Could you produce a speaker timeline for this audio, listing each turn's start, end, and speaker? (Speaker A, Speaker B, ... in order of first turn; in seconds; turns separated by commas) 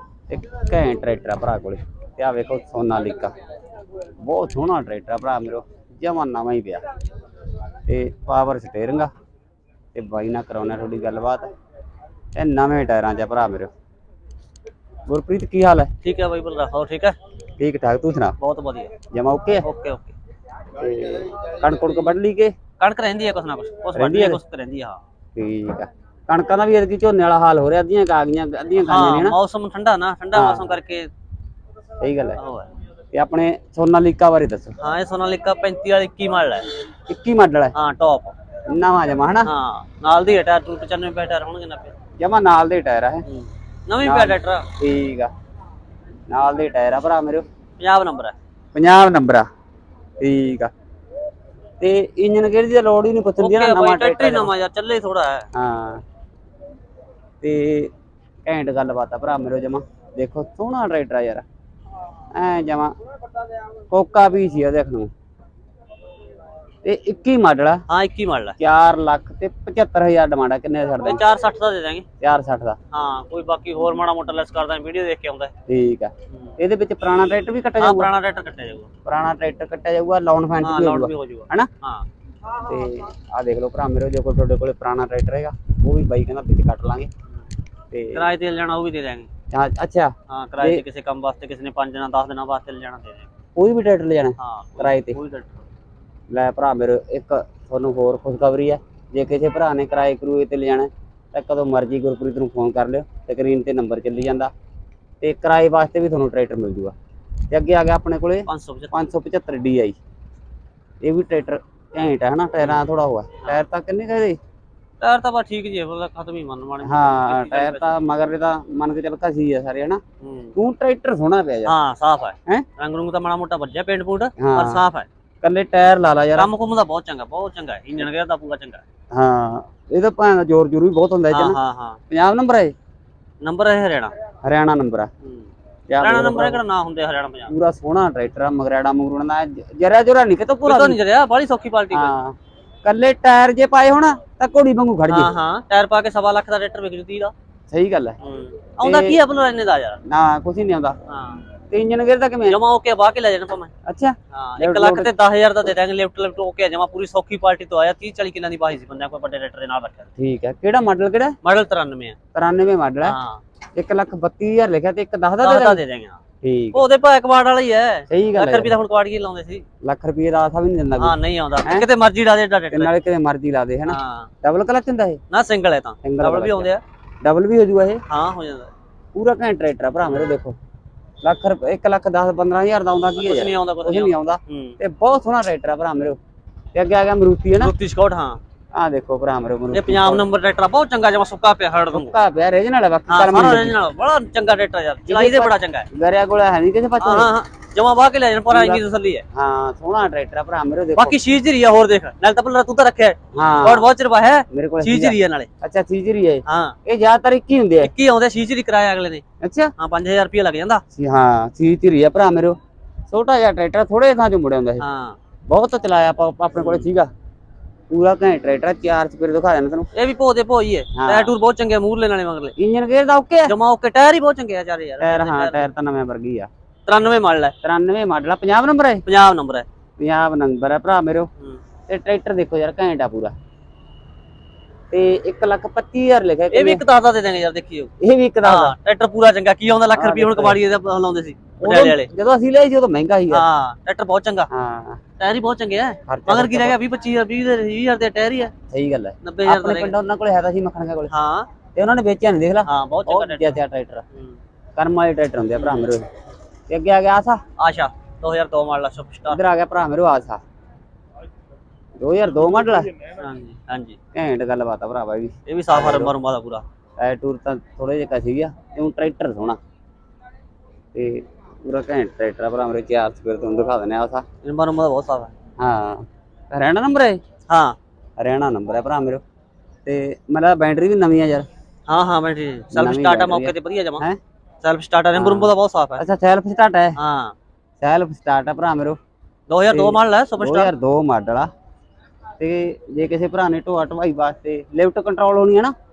Speaker A: 0.3-3.3, Speaker A: 4.2-6.8, Speaker A: 7.9-9.1, Speaker A: 9.9-11.5, Speaker A: 12.3-13.7, Speaker A: 15.1-15.9, Speaker B: 16.0-17.1, Speaker A: 17.6-18.4, Speaker B: 18.4-18.9, Speaker A: 19.1-19.6, Speaker B: 19.6-20.1, Speaker A: 20.8-22.5, Speaker B: 22.8-25.0, Speaker A: 23.9-24.4, Speaker A: 25.3-29.4, Speaker B: 28.8-31.1, Speaker A: 30.3-30.8, Speaker A: 32.0-32.4, Speaker B: 32.4-32.7, Speaker A: 33.1-34.8, Speaker B: 34.8-36.7, Speaker A: 37.1-37.7, Speaker B: 37.7-38.3, Speaker A: 38.7-39.5, Speaker B: 39.4-41.9, Speaker A: 42.2-43.2, Speaker B: 43.2-44.7, Speaker A: 44.0-45.3, Speaker A: 46.3-47.4, Speaker B: 47.8-48.3, Speaker A: 48.7-49.5, Speaker A: 50.2-50.7, Speaker A: 51.8-54.5, Speaker B: 53.4-55.5, Speaker A: 55.5-56.0, Speaker A: 57.4-57.9, Speaker A: 58.4-61.4, Speaker A: 62.3-62.9, Speaker A: 63.9-65.1, Speaker A: 66.8-67.8, Speaker B: 67.9-68.5, Speaker A: 68.6-71.2, Speaker B: 71.0-72.0, Speaker A: 72.2-72.8, Speaker B: 72.9-75.5, Speaker A: 75.7-78.1, Speaker B: 77.8-78.9, Speaker A: 79.0-81.7, Speaker B: 80.6-82.1, Speaker A: 82.5-87.1, Speaker A: 87.9-88.3, Speaker B: 88.1-89.3, Speaker A: 89.5-90.8, Speaker B: 90.3-93.3, Speaker A: 93.5-95.2, Speaker B: 94.4-95.7, Speaker A: 96.3-104.5, Speaker A: 105.2-106.9, Speaker A: 107.5-110.0, Speaker B: 108.5-108.9, Speaker A: 111.0-114.4, Speaker B: 115.0-117.8, Speaker A: 116.8-120.0, Speaker B: 120.2-120.5, Speaker A: 120.5-121.7, Speaker B: 121.6-125.1, Speaker A: 124.4-124.8, Speaker A: 125.4-126.5, Speaker B: 126.3-128.8, Speaker A: 129.1-131.6, Speaker B: 131.3-132.0, Speaker A: 132.1-132.7, Speaker B: 133.4-134.1, Speaker A: 134.4-135.1, Speaker A: 135.9-136.6, Speaker B: 136.0-137.5, Speaker A: 137.5-141.0, Speaker B: 140.6-142.1, Speaker A: 141.9-145.3, Speaker B: 145.1-147.3, Speaker A: 147.7-148.2, Speaker B: 148.2-150.0, Speaker A: 148.8-149.2, Speaker A: 150.0-151.0, Speaker B: 151.1-151.4, Speaker A: 151.7-152.6, Speaker B: 152.4-153.7, Speaker A: 153.8-155.1, Speaker B: 154.3-160.1, Speaker A: 160.2-161.4, Speaker B: 161.4-162.2, Speaker A: 162.3-163.2, Speaker B: 163.0-163.4, Speaker A: 163.8-165.8, Speaker B: 165.4-166.2, Speaker A: 166.4-166.8, Speaker B: 166.7-169.6, Speaker A: 168.1-168.7, Speaker A: 169.8-171.9, Speaker B: 171.0-172.9, Speaker A: 172.7-175.2, Speaker B: 173.9-174.3, Speaker B: 175.3-176.8, Speaker A: 176.0-176.7, Speaker A: 177.2-178.0, Speaker B: 178.1-178.7, Speaker A: 179.1-180.5, Speaker A: 181.2-186.2, Speaker B: 183.2-184.8, Speaker A: 186.7-187.7, Speaker B: 187.6-188.4, Speaker A: 188.7-190.2, Speaker B: 189.7-192.1, Speaker A: 191.9-193.8, Speaker B: 193.1-195.9, Speaker A: 195.1-197.3, Speaker B: 197.0-199.2, Speaker A: 198.5-201.2, Speaker B: 200.9-205.5, Speaker A: 203.3-203.8, Speaker A: 204.5-207.9, Speaker B: 206.4-206.8, Speaker B: 207.8-209.2, Speaker A: 209.4-209.7, Speaker B: 209.8-210.8, Speaker A: 210.9-212.6, Speaker A: 213.1-214.8, Speaker B: 214.8-215.2, Speaker A: 215.5-217.1, Speaker B: 216.6-216.9, Speaker A: 217.9-219.9, Speaker B: 219.9-222.5, Speaker A: 220.9-221.3, Speaker A: 222.6-223.5, Speaker B: 223.4-225.7, Speaker A: 225.0-226.5, Speaker B: 226.8-227.5, Speaker A: 227.6-229.0, Speaker B: 229.1-229.7, Speaker A: 230.0-231.3, Speaker A: 231.9-233.3, Speaker A: 234.9-236.8, Speaker B: 236.5-237.9, Speaker A: 238.0-238.7, Speaker B: 238.4-242.1, Speaker A: 239.9-240.6, Speaker A: 241.6-243.4, Speaker B: 243.3-244.5, Speaker A: 244.5-245.0, Speaker B: 245.2-248.5, Speaker A: 246.1-246.8, Speaker A: 248.7-251.1, Speaker B: 249.2-249.9, Speaker B: 251.1-251.5, Speaker A: 251.7-254.0, Speaker B: 252.6-253.6, Speaker A: 254.8-256.1, Speaker B: 255.6-255.9, Speaker A: 256.7-257.4, Speaker B: 257.6-259.4, Speaker A: 259.3-260.4, Speaker A: 262.0-262.9, Speaker B: 263.1-264.0, Speaker A: 264.1-266.1, Speaker B: 265.5-266.6, Speaker A: 267.0-269.6, Speaker A: 270.9-274.2, Speaker B: 274.4-275.3, Speaker A: 275.6-277.2, Speaker B: 277.5-277.8, Speaker A: 278.2-279.2, Speaker A: 279.9-281.5, Speaker B: 281.9-284.0, Speaker A: 282.7-284.2, Speaker B: 284.6-286.0, Speaker A: 285.1-287.0, Speaker B: 286.9-287.3, Speaker A: 287.8-289.0, Speaker B: 289.5-290.7, Speaker A: 289.7-291.5, Speaker A: 292.4-295.7